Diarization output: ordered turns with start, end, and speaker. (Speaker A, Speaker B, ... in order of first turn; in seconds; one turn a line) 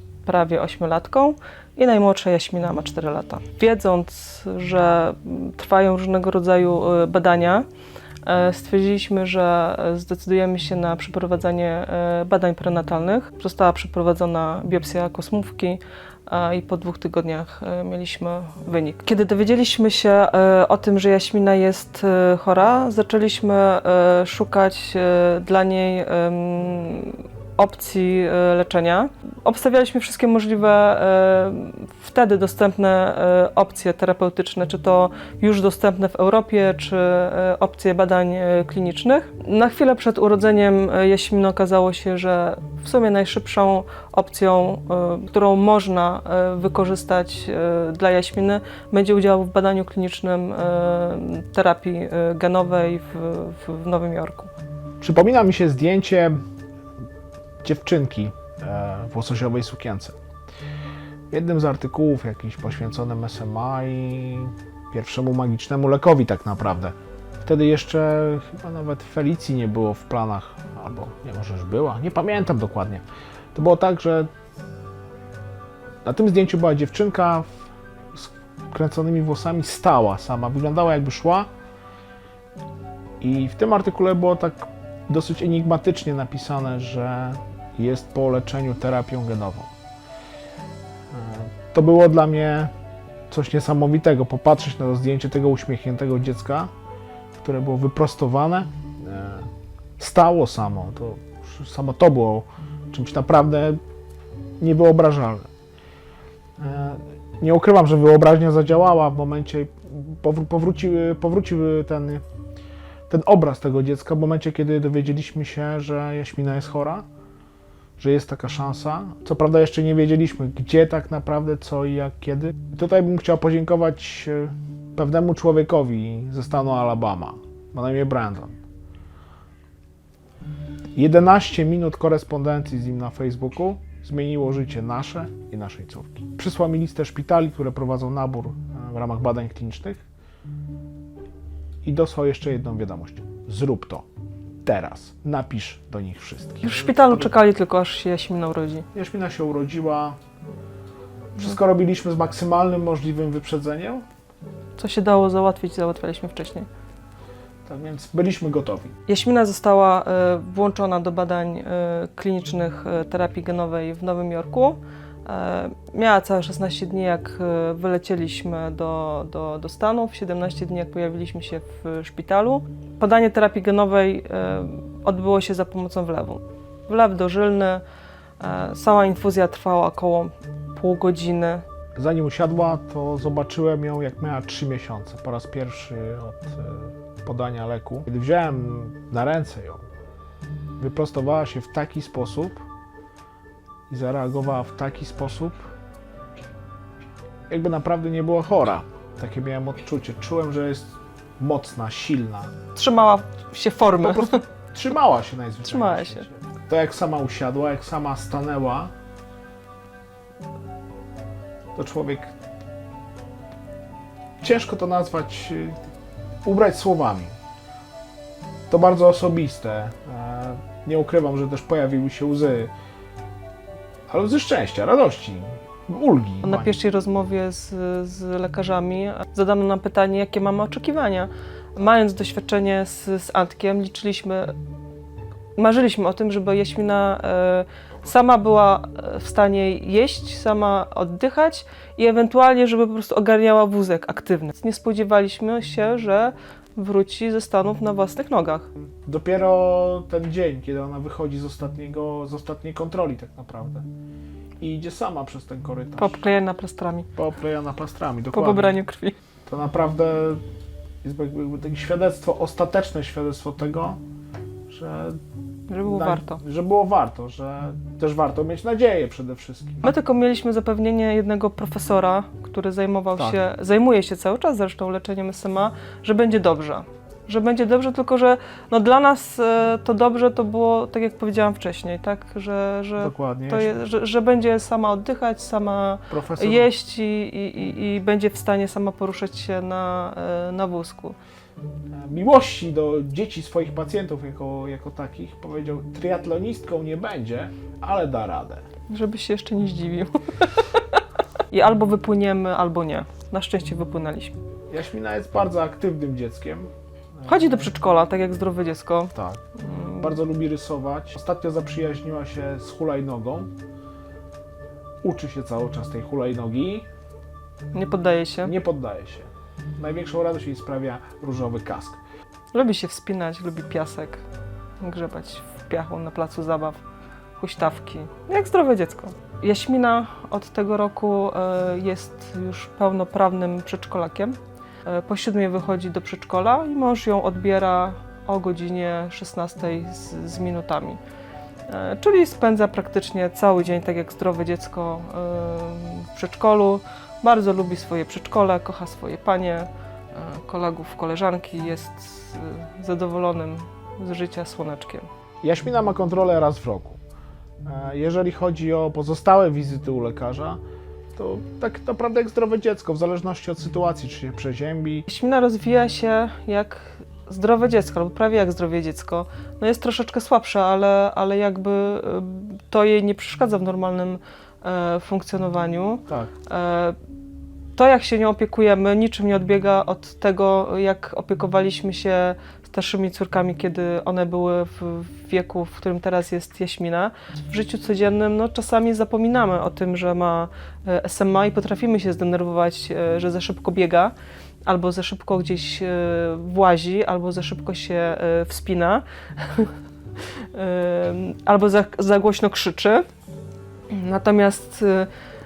Speaker A: 0.2-7.7
Speaker A: 8.2-54.5
Speaker B: 55.0-56.4
Speaker B: 57.6-60.2
Speaker B: 61.3-74.3
Speaker B: 76.0-77.5
Speaker B: 78.1-81.5
Speaker B: 83.2-89.7
Speaker B: 91.1-92.7
Speaker B: 93.3-96.7
Speaker B: 97.4-99.5
Speaker B: 100.0-103.8
Speaker B: 104.6-105.5
Speaker B: 106.6-112.2
Speaker B: 113.1-117.1
Speaker B: 118.0-128.6
Speaker B: 130.9-140.0
Speaker B: 141.8-144.1
Speaker B: 144.7-147.3
Speaker A: 146.6-148.8
Speaker B: 148.9-150.2
Speaker B: 151.3-154.1
Speaker A: 154.8-156.7
Speaker B: 157.7-159.0
Speaker A: 159.1-177.8
Speaker A: 178.4-181.7
Speaker B: 181.9-189.8
Speaker B: 190.8-192.6
Speaker B: 193.9-195.7
Speaker B: 197.5-202.5
Speaker A: 202.8-204.4
Speaker B: 204.0-208.9
Speaker A: 205.7-206.2
Speaker B: 211.8-212.3
Speaker B: 214.4-215.9
Speaker B: 216.4-217.3
Speaker B: 218.7-222.7
Speaker B: 224.1-226.8
Speaker A: 226.4-234.6
Speaker A: 235.6-248.7
Speaker B: 249.1-253.9
Speaker B: 254.6-256.2
Speaker A: 256.0-257.1
Speaker B: 257.2-258.8
Speaker A: 258.3-259.2
Speaker B: 259.5-260.4
Speaker B: 261.0-264.0
Speaker B: 264.7-265.2
Speaker A: 265.7-266.4
Speaker B: 265.8-269.9
Speaker A: 269.8-291.2
Speaker B: 283.0-283.7
Speaker B: 286.1-286.7
Speaker B: 291.9-298.6
Speaker A: 298.9-304.4
Speaker B: 304.7-307.7
Speaker A: 307.2-310.1
Speaker B: 309.1-309.4
Speaker B: 310.0-313.5
Speaker B: 315.0-316.9
Speaker A: 317.7-318.5
Speaker B: 318.4-322.0
Speaker A: 322.5-324.2
Speaker A: 324.8-326.8
Speaker A: 327.4-341.0
Speaker A: 341.7-355.1
Speaker B: 355.4-357.0
Speaker B: 357.6-360.6
Speaker B: 361.1-365.1
Speaker A: 365.1-377.0
Speaker A: 377.8-394.1
Speaker A: 394.7-399.7
Speaker A: 400.3-403.1
Speaker A: 403.9-405.1